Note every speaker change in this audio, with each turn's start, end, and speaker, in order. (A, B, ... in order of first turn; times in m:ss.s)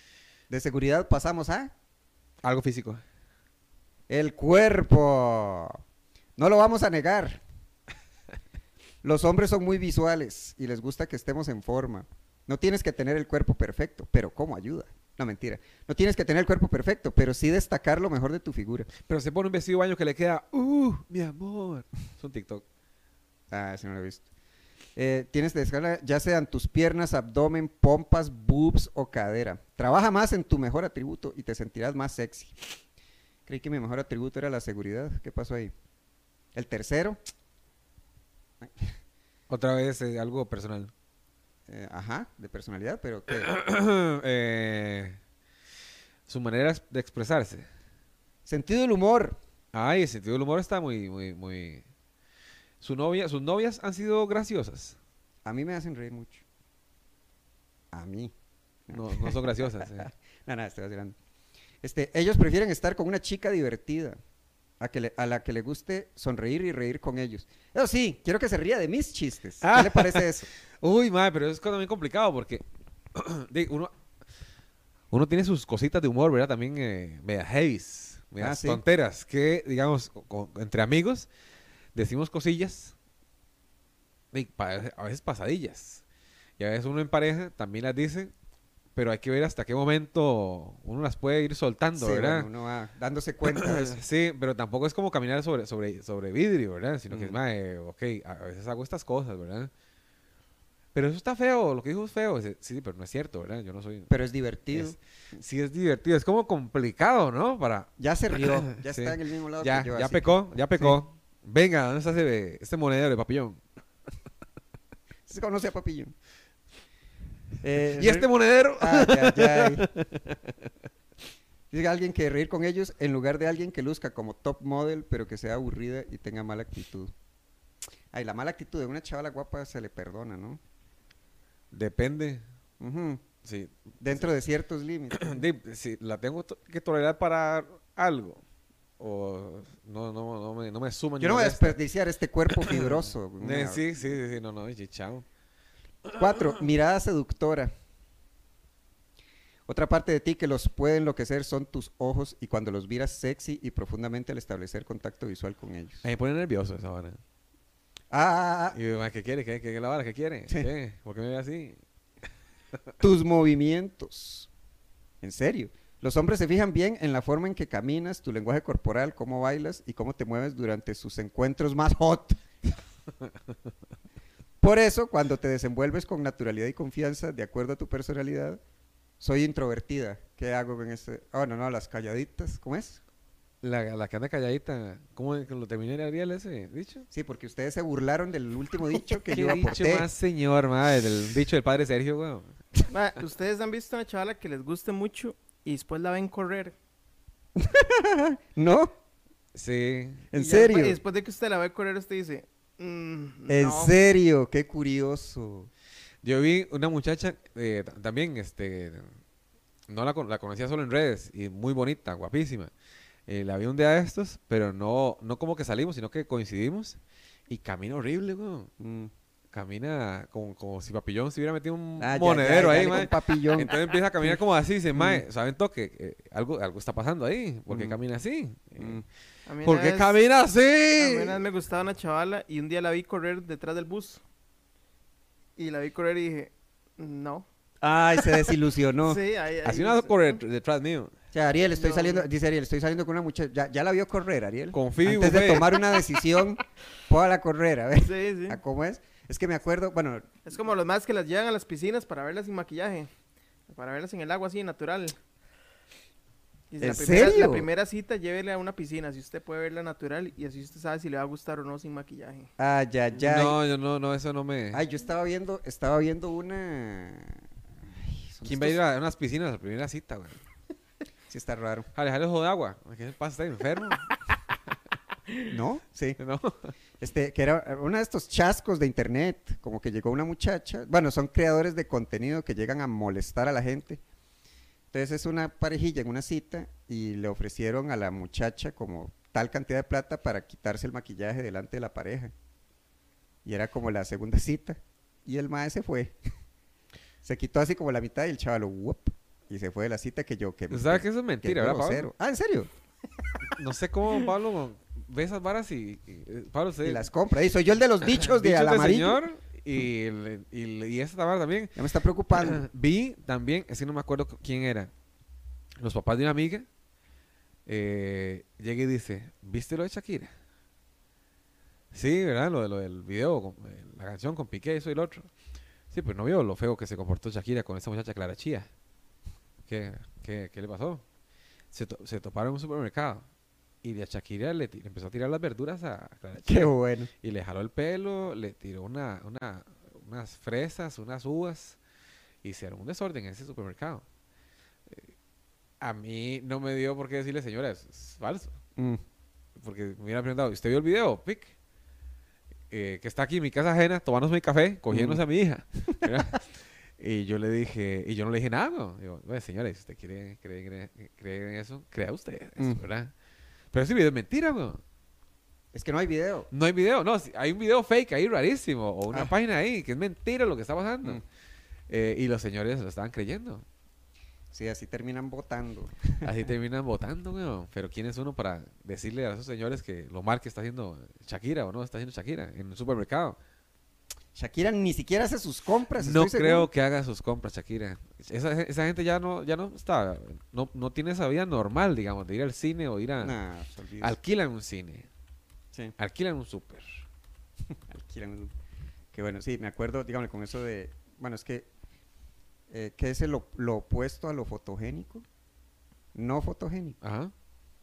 0:00.5-0:01.7 A
0:02.4-0:03.0 B
0:04.1-0:05.8 A
0:06.4-0:07.4 A
0:09.0-0:18.9 A
0:19.0-0:22.6 B
0:23.5-0:24.2 A
0:25.0-0:32.7 A
0:33.5-0:35.7 A
0:36.5-0:37.2 A
0:38.6-0:39.0 A
0:39.5-0:40.9 B
0:41.7-0:43.5 A
0:43.3-0:45.2 B
0:46.3-0:47.7 B
0:48.4-0:49.4 A
0:49.7-0:51.8 B
0:52.8-0:55.0 B
0:55.4-0:56.4 A
0:57.9-0:58.3 A
0:58.9-1:01.2 A
0:58.9-1:00.1 B
1:01.8-1:04.2 A
1:04.8-1:10.5 A
1:09.6-1:10.3 B
1:10.8-1:12.6 B
1:13.1-1:13.9 B
1:15.1-1:21.3 B
1:18.4-1:18.8 A
1:21.9-1:22.9 B
1:24.3-1:26.0 B
1:26.6-1:28.3 B
1:29.0-1:32.5 B
1:32.0-1:34.0 A
1:33.5-1:39.7 B
1:37.1-1:37.4 A
1:40.9-1:44.1 B
1:44.1-1:45.0 A
1:44.7-1:53.6 B
1:48.0-1:51.0 A
1:55.3-1:56.1 A
1:57.6-1:59.9 A
1:58.0-2:00.5 B
2:01.7-2:07.1 A
2:08.1-2:10.6 A
2:11.7-2:12.4 B
2:12.8-2:13.2 A
2:13.4-2:14.2 B
2:14.0-2:15.4 A
2:15.1-2:18.4 B
2:19.0-2:21.8 B
2:21.2-2:23.8 A
2:22.6-2:25.2 B
2:26.1-2:27.7 A
2:29.7-2:36.0 A
2:36.0-2:37.2 B
2:38.1-2:38.8 A
2:38.7-2:41.8 B
2:43.0-2:44.5 A
2:45.2-2:52.4 A
2:54.6-2:58.6 A
2:59.2-3:03.0 A
3:03.6-3:07.1 B
3:07.1-3:10.1 A
3:09.3-3:12.5 B
3:12.9-3:16.7 C
3:17.6-3:18.9 A
3:19.5-3:20.3 B
3:20.3-3:21.0 A
3:20.3-3:23.9 C
3:23.5-3:25.7 A
3:26.2-3:29.1 B
3:29.9-3:32.7 B
3:33.3-3:38.7 B
3:38.8-3:39.1 A
3:39.5-3:49.0 B
3:42.0-3:44.4 A
3:44.9-3:45.2 A
3:47.7-3:48.0 A
3:48.8-3:49.0 A
3:49.4-3:50.1 C
3:49.6-3:51.4 B
3:51.0-3:54.2 C
3:55.6-3:57.4 C
3:57.8-3:59.2 A
3:58.2-4:00.4 C
3:59.6-4:01.1 B
4:01.3-4:10.3 A
4:01.6-4:02.3 C
4:04.7-4:05.7 B
4:08.0-4:08.6 C
4:10.4-4:13.1 C
4:13.7-4:15.2 C
4:16.7-4:22.5 C
4:16.8-4:17.7 A
4:22.6-4:23.6 A
4:23.2-4:24.8 B
4:24.7-4:28.8 A
4:28.4-4:30.4 B
4:31.3-4:31.9 A
4:31.9-4:34.1 B
4:35.5-4:36.2 A
4:36.2-4:36.7 B
4:37.0-4:44.0 A
4:44.9-4:52.3 A
4:53.4-4:56.2 A
4:57.2-5:02.7 A
5:00.7-5:02.1 B
5:03.5-5:07.1 B
5:06.8-5:09.2 A
5:08.1-5:11.8 B
5:11.8-5:12.6 A
5:12.3-5:14.9 B
5:15.8-5:16.7 B
5:17.6-5:20.3 B
5:21.9-5:25.3 B
5:25.9-5:28.7 B
5:29.7-5:31.0 B
5:31.7-5:33.3 B
5:33.8-5:41.8 B
5:36.4-5:37.1 A
5:42.4-5:44.0 B
5:45.8-5:48.6 B
5:49.6-5:51.5 B
5:52.7-6:03.1 B
5:54.9-5:55.2 A
6:03.7-6:04.8 B
6:05.7-6:06.5 A
6:06.5-6:11.2 B
6:11.9-6:13.6 B
6:14.5-6:16.3 A
6:16.2-6:23.4 B
6:24.3-6:26.7 A
6:26.0-6:33.3 B
6:33.2-6:34.2 A
6:34.0-6:35.1 B
6:36.0-6:37.0 B
6:37.7-6:38.5 A
6:39.1-6:41.7 A
6:42.7-6:45.2 A
6:46.1-6:47.0 A
6:47.0-6:47.3 B